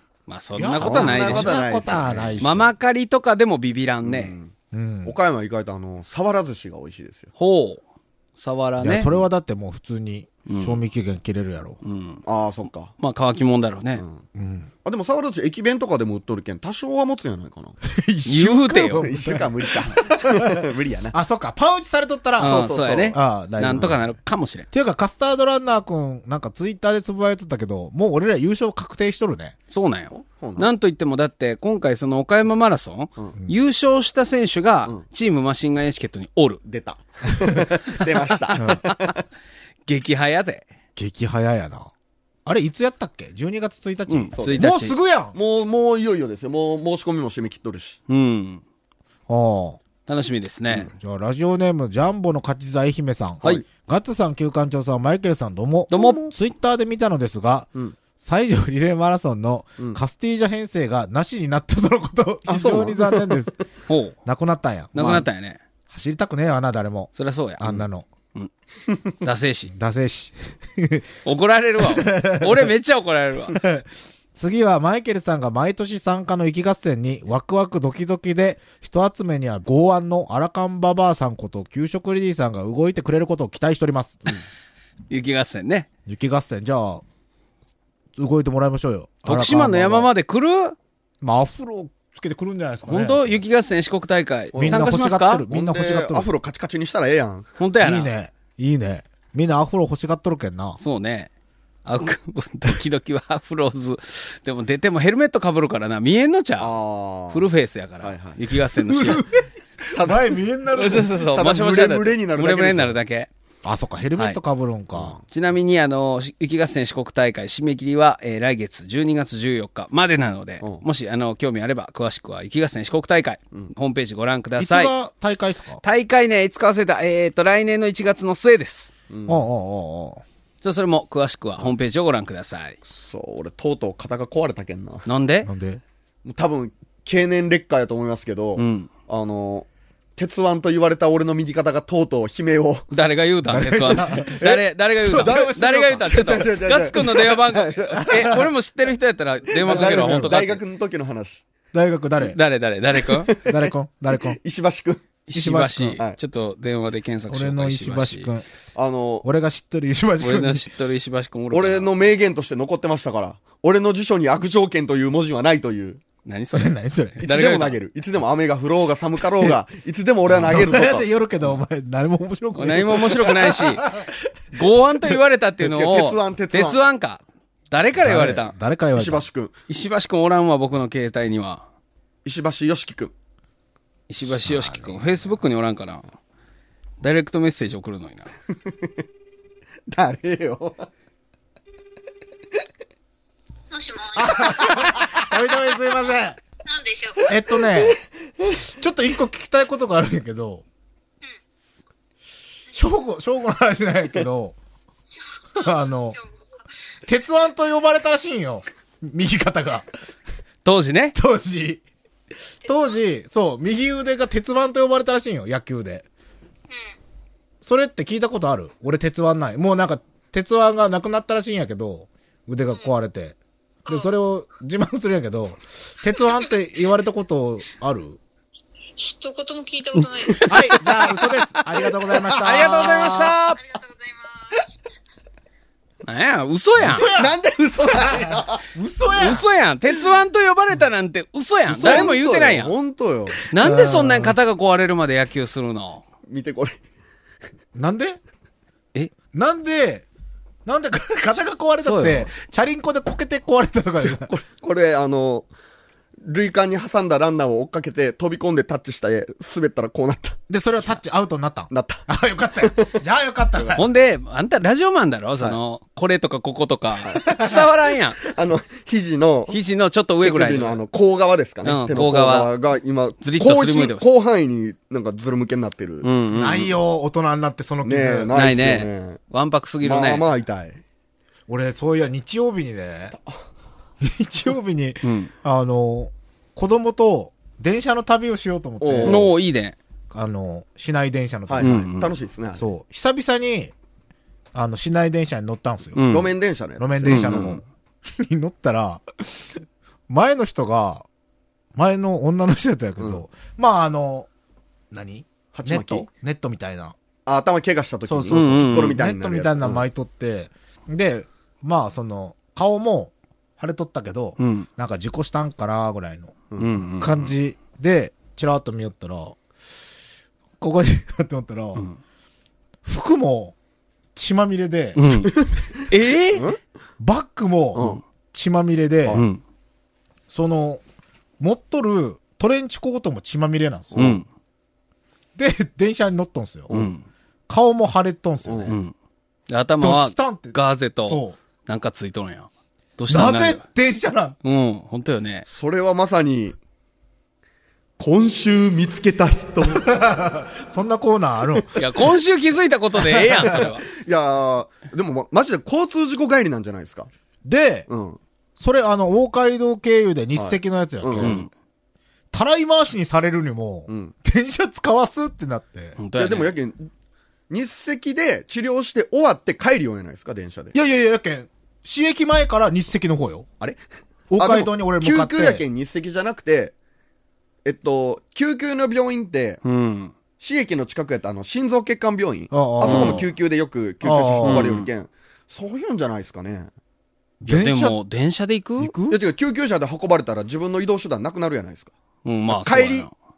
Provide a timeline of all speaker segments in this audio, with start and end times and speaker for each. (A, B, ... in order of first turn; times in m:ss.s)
0:00.3-0:01.5 A
0:00.6-0:02.7 B
0:00.8-0:02.4 C
0:02.4-0:04.4 A
0:04.0-0:04.5 C
0:04.7-0:05.1 B
0:05.0-0:07.3 C
0:07.4-0:07.8 A
0:08.4-0:09.2 A
0:08.8-0:11.8 B
0:10.5-0:10.8 A
0:11.8-0:12.2 A
0:12.2-0:12.9 C
0:13.0-0:14.0 A
0:14.0-0:14.2 C
0:14.4-0:14.7 B
0:14.8-0:17.8 C
0:17.8-0:20.6 B
0:18.2-0:19.0 A
0:18.9-0:21.1 C
0:21.1-0:24.0 B
0:22.4-0:23.2 C
0:22.4-0:24.7 A
0:24.7-0:29.5 B
0:29.7-0:36.6 A
0:30.1-0:30.7 C
0:36.6-0:39.2 C
0:38.5-0:39.2 A
0:38.6-0:38.8 B
0:39.9-0:40.6 A
0:41.0-0:41.9 B
0:42.5-0:45.4 B
0:44.1-0:45.0 A
0:44.3-0:44.7 C
0:45.3-0:48.0 C
0:48.1-0:48.6 A
0:49.3-0:49.8 B
0:50.1-0:50.9 A
0:50.7-1:03.5 B
0:55.9-0:56.2 A
0:55.9-0:56.3 C
1:02.5-1:03.6 C
1:03.9-1:04.2 A
1:04.2-1:05.2 B
1:05.0-1:05.6 A
1:05.9-1:08.1 B
1:07.2-1:07.8 A
1:09.2-1:09.7 A
1:09.7-1:11.0 B
1:11.2-1:13.6 A
1:11.8-1:12.7 B
1:13.5-1:24.2 B
1:25.1-1:25.9 A
1:26.1-1:27.0 B
1:28.1-1:30.1 B
1:29.2-1:30.8 A
1:31.2-1:33.4 B
1:32.9-1:35.4 A
1:34.5-1:35.0 C
1:34.6-1:36.3 B
1:35.5-1:37.5 C
1:37.6-1:38.1 A
1:37.8-1:40.8 B
1:40.8-1:41.3 A
1:41.8-1:46.7 A
1:46.6-1:47.5 C
1:47.3-1:49.2 A
1:48.0-1:48.5 C
1:48.8-1:51.1 B
1:49.9-1:50.4 C
1:50.8-1:53.3 A
1:51.3-1:53.0 C
1:53.6-1:55.2 B
1:54.9-1:55.2 C
1:55.3-2:04.9 A
2:04.6-2:05.8 B
2:05.8-2:08.9 A
2:09.1-2:09.4 C
2:09.3-2:10.2 B
2:10.6-2:12.8 A
2:12.9-2:15.0 C
2:15.0-2:15.5 A
2:15.4-2:15.8 B
2:16.2-2:22.9 C
2:18.6-2:18.9 A
2:22.9-2:30.6 A
2:23.5-2:24.4 B
2:24.3-2:28.4 C
2:25.0-2:26.4 B
2:28.0-2:28.4 B
2:29.5-2:31.4 C
2:29.6-2:30.4 B
2:31.7-2:32.4 B
2:32.2-2:33.3 A
2:33.0-2:35.1 C
2:33.4-2:34.4 B
2:35.3-2:38.3 A
2:35.3-2:36.0 B
2:37.3-2:38.4 B
2:38.8-2:39.3 C
2:39.2-2:40.7 B
2:40.2-2:41.9 A
2:41.5-2:46.0 C
2:46.2-2:47.8 A
2:46.5-2:47.2 B
2:47.2-2:51.1 C
2:50.3-2:54.3 B
2:52.6-2:53.9 A
2:54.5-2:58.5 A
2:55.6-2:56.8 C
2:58.0-2:59.2 B
2:59.0-2:59.5 C
2:59.7-3:01.6 A
3:02.2-3:03.1 C
3:04.1-3:06.0 A
3:07.0-3:08.3 A
3:09.9-3:10.9 C
3:13.7-3:15.3 D
3:14.2-3:16.4 B
3:16.6-3:17.3 D
3:17.3-3:18.0 B
3:17.8-3:18.6 C
3:18.6-3:20.6 B
3:22.7-3:24.6 B
3:25.6-3:26.2 B
3:25.6-3:26.4 D
3:27.1-3:29.9 B
3:30.6-3:31.2 A
3:31.1-3:31.8 B
3:32.6-3:33.0 D
3:32.6-3:36.0 B
3:37.6-3:48.2 B
3:49.0-3:50.9 D
3:50.5-3:53.3 B
3:52.3-3:53.4 C
3:52.4-3:53.6 A
3:53.5-3:54.6 D
3:56.0-3:57.1 A
3:56.8-3:59.4 B
3:57.0-3:58.6 C
3:59.1-4:02.7 A
4:01.7-4:03.4 C
4:01.8-4:02.1 B
4:03.5-4:06.0 A
4:03.6-4:04.4 B
4:06.3-4:06.8 C
4:07.8-4:08.2 B
4:09.3-4:10.0 B
4:10.6-4:14.3 B
4:11.8-4:12.3 A
4:14.0-4:15.5 C
4:16.2-4:20.4 C
4:20.5-4:23.8 B
4:21.7-4:22.0 C
4:22.6-4:23.0 C
4:23.6-4:23.8 C
4:23.8-4:28.2 A
4:27.0-4:27.6 C
4:28.2-4:29.6 C
4:29.5-4:30.8 A
4:30.2-4:36.1 C
4:31.6-4:32.5 A
4:33.2-4:34.0 A
4:36.0-4:36.7 A
4:36.3-4:38.4 B
4:37.8-4:39.2 C
4:38.3-4:40.2 A
4:39.8-4:40.8 C
4:41.5-4:43.2 B
4:44.0-4:49.3 B
4:45.0-4:45.3 A
4:48.8-4:49.3 C
4:49.0-4:49.8 A
4:50.1-4:51.9 B
4:51.5-4:52.7 C
4:51.6-4:52.1 A
4:52.5-4:53.7 B
4:54.5-4:56.1 B
4:56.0-4:56.3 A
4:56.1-4:57.6 C
4:56.8-4:59.5 B
4:57.0-4:57.5 A
5:00.1-5:01.0 B
5:01.8-5:04.3 B
5:04.9-5:07.0 B
5:05.5-5:06.1 C
5:07.2-5:09.8 C
5:08.1-5:16.4 B
5:08.3-5:09.0 A
5:14.4-5:14.7 A
5:16.6-5:17.3 A
5:17.0-5:19.4 B
5:20.6-5:21.8 B
5:22.8-5:23.5 B
5:24.2-5:25.3 B
5:25.0-5:25.3 A
5:25.3-5:26.6 C
5:25.9-5:26.5 A
5:27.0-5:29.2 B
5:27.8-5:28.0 C
5:29.1-5:29.4 A
5:30.3-5:30.8 B
5:31.4-5:34.2 B
5:33.9-5:34.2 C
5:34.0-5:34.2 A
5:35.4-5:36.7 B
5:36.7-5:37.0 A
5:37.5-5:38.8 B
5:38.5-5:38.8 C
5:38.7-5:38.9 A
5:39.5-5:43.6 A
5:39.8-5:41.4 B
5:43.1-5:44.4 B
5:44.4-5:45.4 A
5:45.5-5:46.6 C
5:48.0-5:49.9 C
5:49.7-5:51.7 B
5:51.8-5:53.8 A
5:53.3-5:57.1 C
5:57.4-5:57.9 B
5:57.9-5:58.2 C
5:58.6-6:01.4 B
6:00.4-6:01.4 C
6:01.2-6:01.5 A
6:02.3-6:06.0 B
6:03.9-6:04.1 C
6:06.0-6:06.5 A
6:06.2-6:06.9 C
6:07.5-6:10.8 C
6:10.7-6:13.5 B
6:14.3-6:15.6 B
6:14.4-6:16.7 C
6:17.6-6:19.6 C
6:19.6-6:20.1 A
6:20.4-6:26.7 C
6:22.5-6:23.3 B
6:22.8-6:23.2 A
6:24.0-6:24.7 B
6:24.4-6:24.9 A
6:27.4-6:28.0 B
6:27.4-6:28.9 A
6:28.8-6:29.2 B
6:29.1-6:31.9 C
6:32.2-6:33.1 A
6:32.5-6:33.1 C